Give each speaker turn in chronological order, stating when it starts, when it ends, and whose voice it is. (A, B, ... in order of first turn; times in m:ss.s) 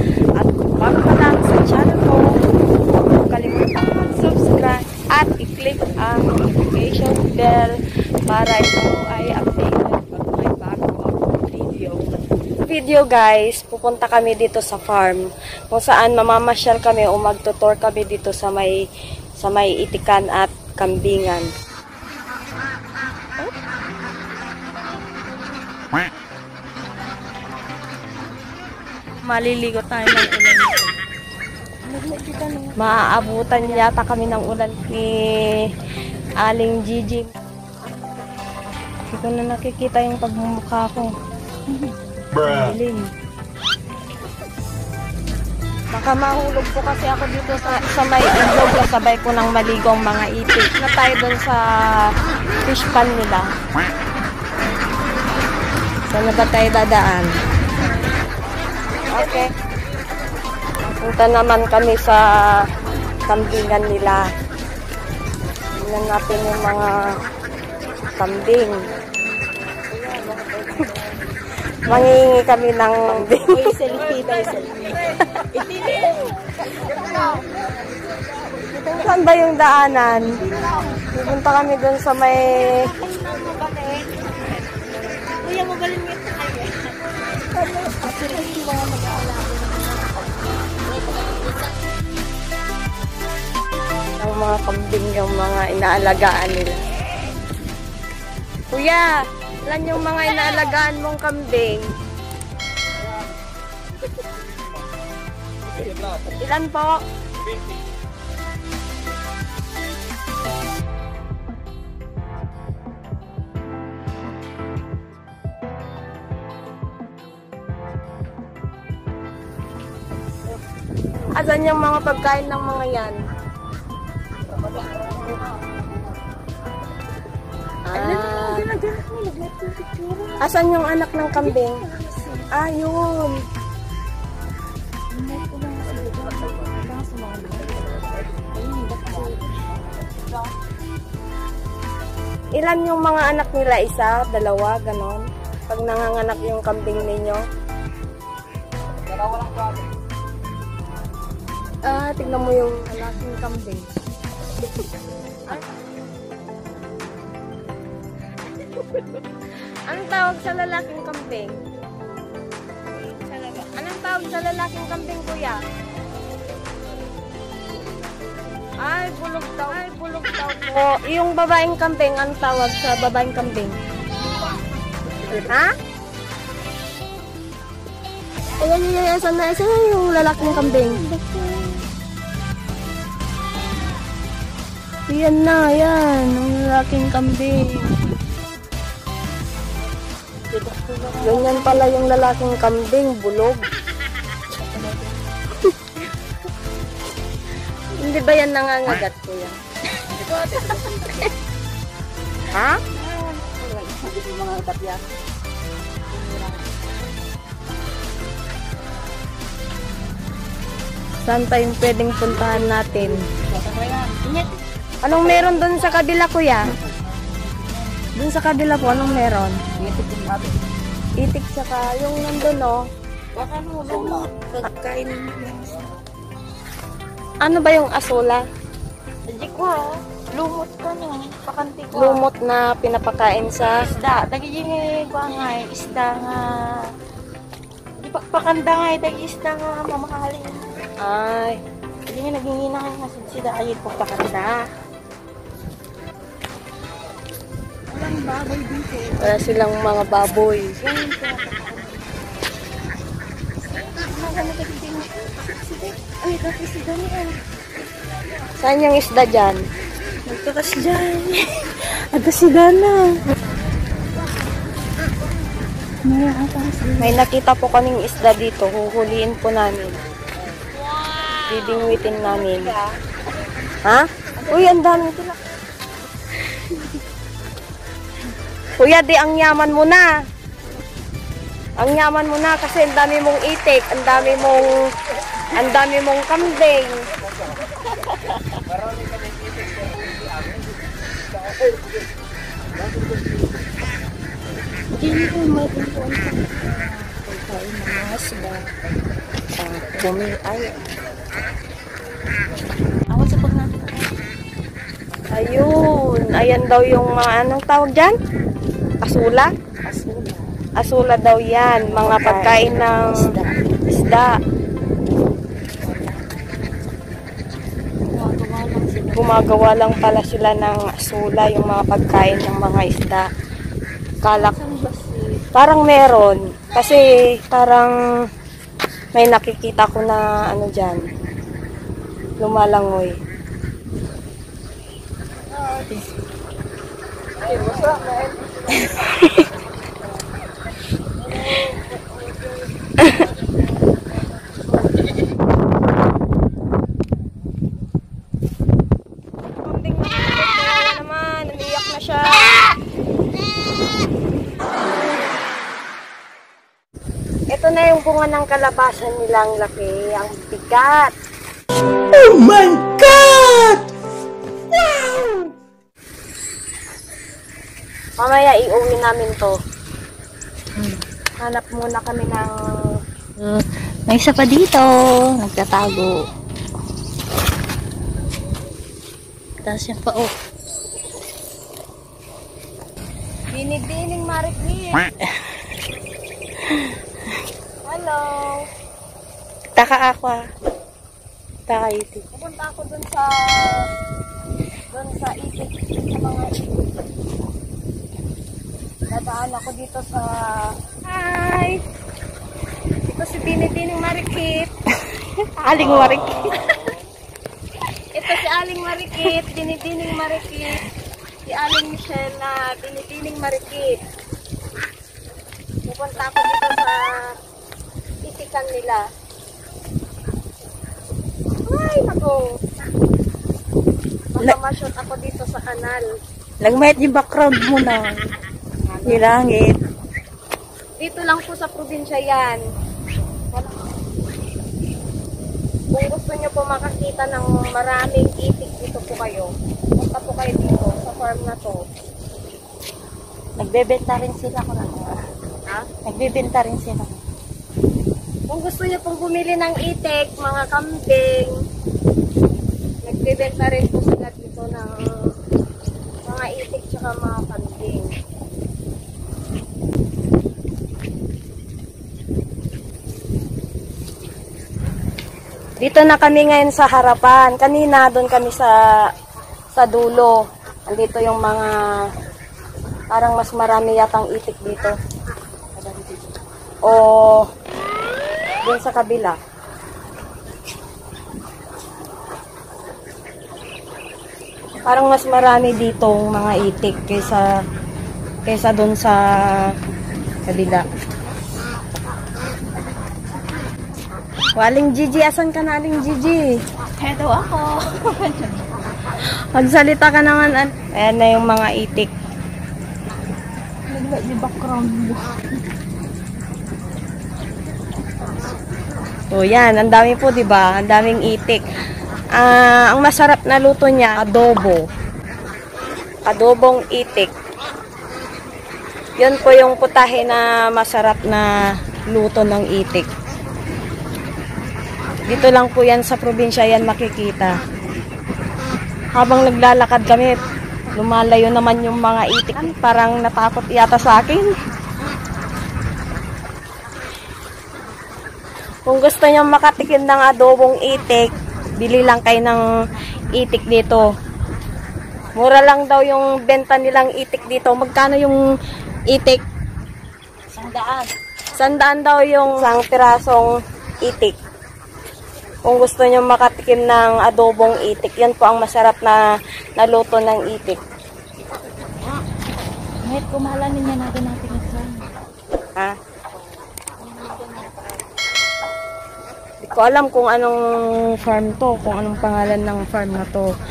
0:00.4-0:02.4 A
0:03.1-0:12.1 A
0:12.7-0:18.8 A
0:19.4-0:21.5 A
0:29.2-0:30.9 A
0:31.8-0:33.9 B
0:32.8-0:35.7 A
0:36.4-0:37.3 A
0:39.1-0:41.1 A
0:42.4-0:43.0 A
0:45.9-0:52.1 A
0:52.6-0:53.5 A
0:56.1-0:57.3 A
0:59.1-0:59.5 A
1:00.9-1:02.2 A
1:03.3-1:04.3 A
1:05.8-1:07.0 A
1:08.2-1:08.8 A
1:09.9-1:11.1 B
1:11.8-1:12.1 B
1:11.9-1:13.6 A
1:13.4-1:17.6 B
1:18.6-1:19.2 B
1:19.0-1:20.4 A
1:20.4-1:21.2 B
1:21.1-1:22.9 A
1:23.0-1:24.1 B
1:25.4-1:30.3 B
1:34.2-1:36.8 A
1:38.7-1:41.9 A
1:46.2-1:47.0 A
2:01.3-2:03.2 A
2:07.9-2:08.6 A
2:07.9-2:10.4 B
2:10.4-2:11.9 A
2:11.3-2:12.5 B
2:12.5-2:13.4 A
2:15.1-2:17.8 B
2:18.5-2:20.2 B
2:22.6-2:27.4 A
2:31.8-2:33.9 A
2:39.9-2:41.6 A
2:43.3-2:45.6 A
2:48.8-2:53.8 A
2:55.4-2:55.7 A
2:58.6-3:01.0 A
3:00.4-3:01.8 B
3:05.1-3:08.0 A
3:10.4-3:12.0 B
3:11.2-3:13.6 A
3:14.6-3:15.2 B
3:18.0-3:19.6 A
3:20.1-3:21.3 B
3:20.4-3:21.3 A
3:22.5-3:22.8 A
3:22.9-3:25.1 B
3:26.1-3:26.7 B
3:31.2-3:33.2 A
3:33.5-3:34.5 B
3:35.0-3:36.7 A
3:35.1-3:35.8 B
3:37.4-3:37.8 B
3:38.2-3:39.6 A
3:39.8-3:40.5 B
3:41.2-3:42.8 A
3:43.4-3:45.8 B
3:47.4-3:48.4 A
3:49.3-3:52.2 B
3:51.9-3:53.8 A
3:53.9-3:56.8 B
3:58.0-4:00.8 B
4:01.0-4:01.6 A
4:02.1-4:04.6 B
4:07.9-4:09.9 B
4:09.2-4:10.8 A
4:10.8-4:12.4 B
4:13.7-4:17.4 B
4:18.6-4:19.6 A
4:20.3-4:23.2 B
4:26.0-4:27.2 B
4:27.0-4:30.0 A
4:31.5-4:32.7 A
4:31.9-4:32.9 B
4:33.8-4:35.3 A
4:34.4-4:35.0 B
4:36.6-4:36.9 A
4:38.8-4:40.1 A
4:41.8-4:44.8 A
4:45.5-4:47.0 A
4:55.0-4:58.7 B
4:59.6-5:00.8 B
5:03.1-5:04.0 B
5:05.3-5:08.2 A
5:09.0-5:09.5 A
5:09.8-5:10.5 B
5:10.8-5:13.2 A
5:11.7-5:13.6 B
5:13.9-5:14.3 A
5:15.8-5:16.2 B
5:18.1-5:19.4 B
5:19.1-5:23.3 A
5:24.2-5:24.6 A
5:24.3-5:25.4 B
5:25.6-5:27.9 A
5:29.2-5:31.0 A
5:32.4-5:33.1 A
5:35.5-5:36.1 B
5:37.5-5:38.1 B
5:38.7-5:39.0 B
5:49.6-5:52.8 A
5:57.5-6:01.1 A
6:02.3-6:03.8 B
6:08.2-6:09.6 A
6:10.8-6:11.0 B
6:11.4-6:13.0 A
6:13.4-6:16.2 B
6:19.6-6:20.3 B
6:23.5-6:25.1 A
6:26.7-6:26.9 B
6:27.8-6:28.6 A
6:29.8-6:30.4 B
6:31.7-6:32.2 B
6:32.3-6:33.8 A
6:34.9-6:37.0 A
6:39.1-6:41.8 A
6:43.1-6:44.7 A
6:45.1-6:46.8 B
6:48.1-6:50.8 A
6:51.4-6:54.0 A
6:55.9-6:57.2 A
6:58.2-6:59.0 A
7:01.7-7:02.5 A
7:04.3-7:06.1 A
7:06.6-7:08.3 B
7:08.9-7:09.3 A
7:09.0-7:09.8 B
7:11.0-7:12.6 A
7:15.9-7:21.8 A
7:23.6-7:25.2 B
7:26.0-7:27.2 B
7:28.5-7:31.6 A
7:33.0-7:35.3 A
7:36.2-7:38.1 A
7:45.8-7:48.7 A
7:49.7-7:51.8 A
7:53.1-7:55.0 A
7:55.8-7:56.2 B
7:56.8-7:57.4 A
7:58.6-7:59.4 A
8:04.8-8:07.5 A
8:08.5-8:09.8 A
8:10.5-8:10.9 A
8:14.6-8:16.5 A
8:17.0-8:18.8 B
8:19.5-8:22.1 A
8:23.9-8:25.3 B
8:29.3-8:31.6 A
8:32.4-8:34.8 A
8:36.3-8:37.3 A
8:39.2-8:41.5 A
8:42.1-8:43.1 A
8:45.3-8:47.5 A
8:49.2-8:50.4 A
8:50.9-8:54.5 A
8:58.9-9:02.6 A
9:03.3-9:04.1 A
9:05.4-9:08.4 A
9:09.1-9:09.4 A
9:10.5-9:11.1 B
9:11.6-9:14.4 A
9:15.7-9:19.2 A
9:19.8-9:20.8 A
9:23.0-9:25.1 B
9:27.0-9:28.1 B
9:29.6-9:30.6 A
9:31.1-9:33.5 A